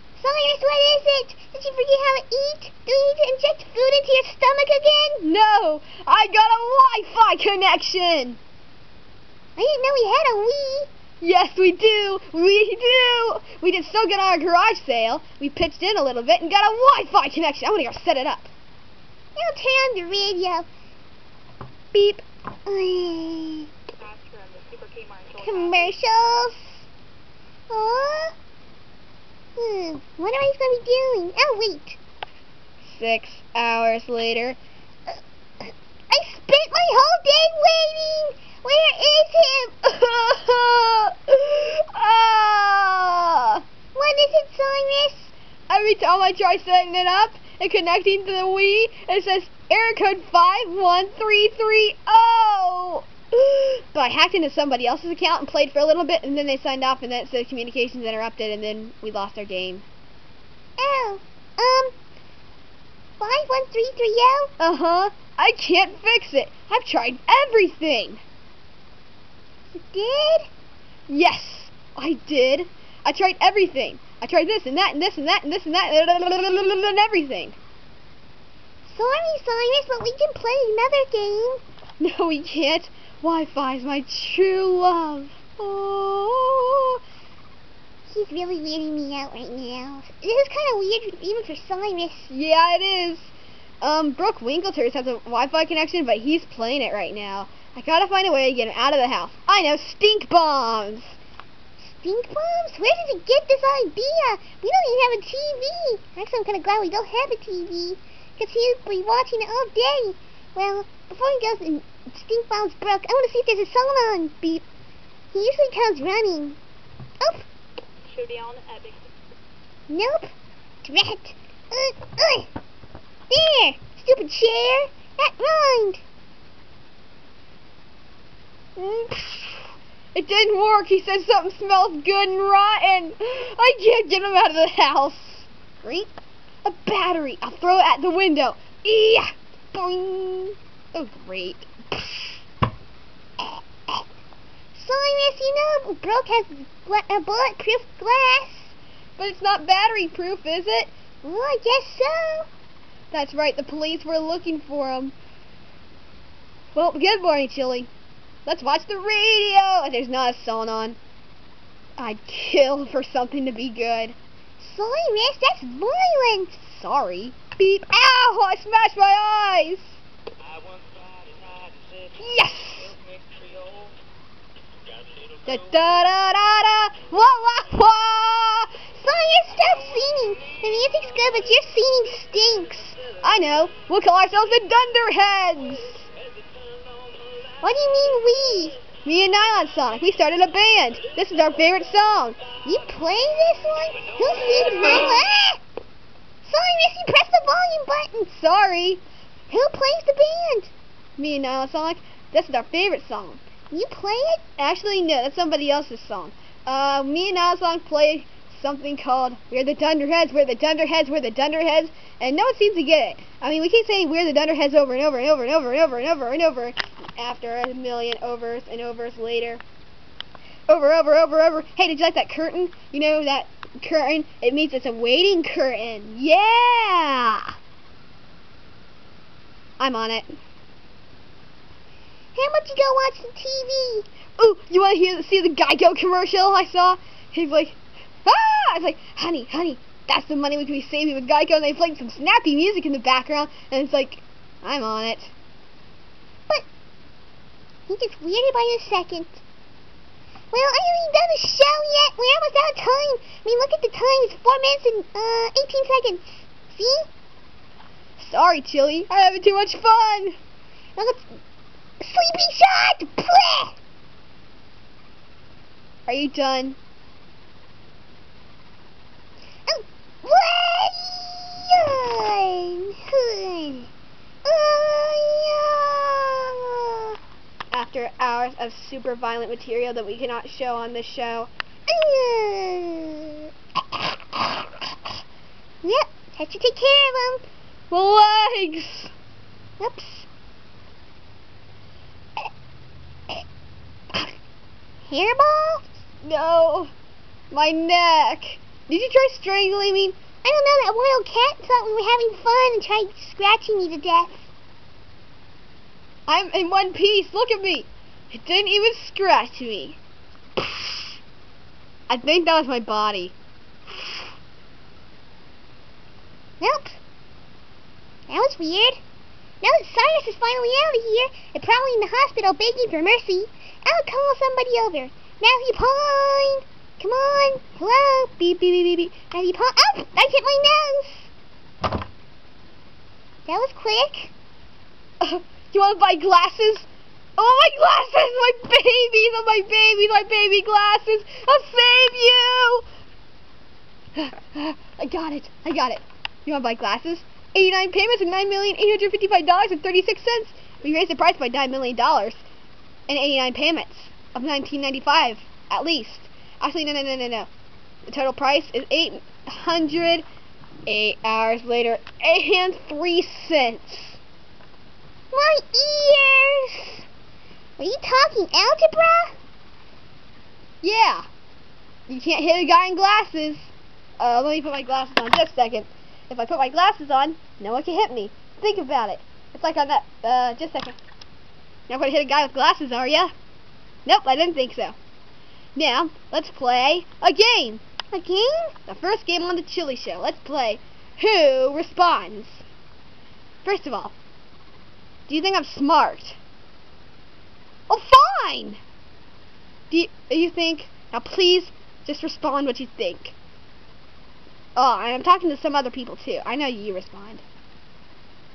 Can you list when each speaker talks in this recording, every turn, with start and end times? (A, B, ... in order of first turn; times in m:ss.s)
0:00.2-0:05.2 A
0:05.2-0:08.4 B
0:09.6-0:10.9 A
0:11.2-0:18.5 B
0:19.4-0:20.7 A
0:22.7-0:23.7 A
0:24.0-0:25.9 C
0:25.4-0:26.9 A
0:27.7-0:28.3 A
0:29.6-0:32.0 A
0:32.8-0:34.6 B
0:36.1-0:39.8 A
0:39.9-0:43.6 B
0:44.0-0:45.3 A
0:45.7-0:59.9 B
1:00.8-1:01.9 A
1:03.2-1:04.5 A
1:04.6-1:08.2 B
1:09.8-1:10.5 A
1:11.1-1:17.6 B
1:18.8-1:21.6 A
1:22.0-1:27.0 B
1:28.1-1:32.3 A
1:32.3-1:41.2 B
1:41.8-1:54.6 A
1:55.3-1:56.6 A
1:57.2-1:57.5 A
1:58.1-1:59.0 C
1:59.9-2:00.3 A
2:00.8-2:02.5 A
2:03.3-2:06.0 A
2:08.8-2:22.4 B
2:23.4-2:24.0 A
2:24.7-2:28.8 A
2:29.2-2:30.9 B
2:31.2-2:32.5 A
2:33.1-2:35.2 B
2:36.7-2:37.9 B
2:38.5-2:41.0 B
2:42.0-2:44.2 B
2:44.6-2:46.7 A
2:46.7-2:50.0 B
2:52.1-2:53.0 B
2:55.5-2:58.9 B
2:58.9-3:03.0 A
3:03.1-3:06.1 B
3:07.6-3:08.8 A
3:09.0-3:12.4 B
3:12.6-3:15.6 A
3:16.4-3:18.3 A
3:18.3-3:19.0 B
3:19.5-3:20.7 A
3:21.2-3:23.4 B
3:23.7-3:24.5 A
3:24.6-3:39.6 B
3:40.7-3:47.6 B
3:49.8-3:50.4 B
3:52.4-3:54.1 A
3:54.4-4:05.3 B
4:07.9-4:09.4 A
4:10.5-4:17.1 A
4:18.2-4:20.4 B
4:21.0-4:21.4 A
4:22.0-4:23.8 A
4:26.1-4:26.8 B
4:29.7-4:33.9 A
4:34.4-4:37.2 A
4:37.7-4:41.5 B
4:41.9-4:43.5 A
4:45.8-4:47.4 A
4:47.9-4:49.1 B
4:49.8-4:50.3 A
4:55.0-4:55.9 A
4:56.2-4:56.9 B
4:57.5-5:00.2 B
5:00.4-5:04.5 A
5:06.3-5:10.0 B
5:10.6-5:11.2 B
5:12.1-5:13.4 B
5:16.6-5:17.0 A
5:18.3-5:19.0 A
5:19.6-5:31.3 A
5:33.5-5:34.3 A
5:35.2-5:42.9 B
5:44.2-5:52.4 B
5:53.1-5:57.5 B
5:58.1-6:00.2 B
6:00.9-6:04.2 B
6:05.3-6:07.1 A
6:07.8-6:09.4 A
6:10.8-6:11.3 B
6:12.1-6:21.0 B
6:21.9-6:23.3 B
6:24.1-6:25.0 B
6:25.8-6:27.8 B
6:28.1-6:28.8 A
6:28.8-6:32.7 B
6:33.6-6:34.2 B
6:35.3-6:36.4 B
6:37.9-6:38.8 B
6:39.9-6:43.4 B
6:44.8-6:47.4 B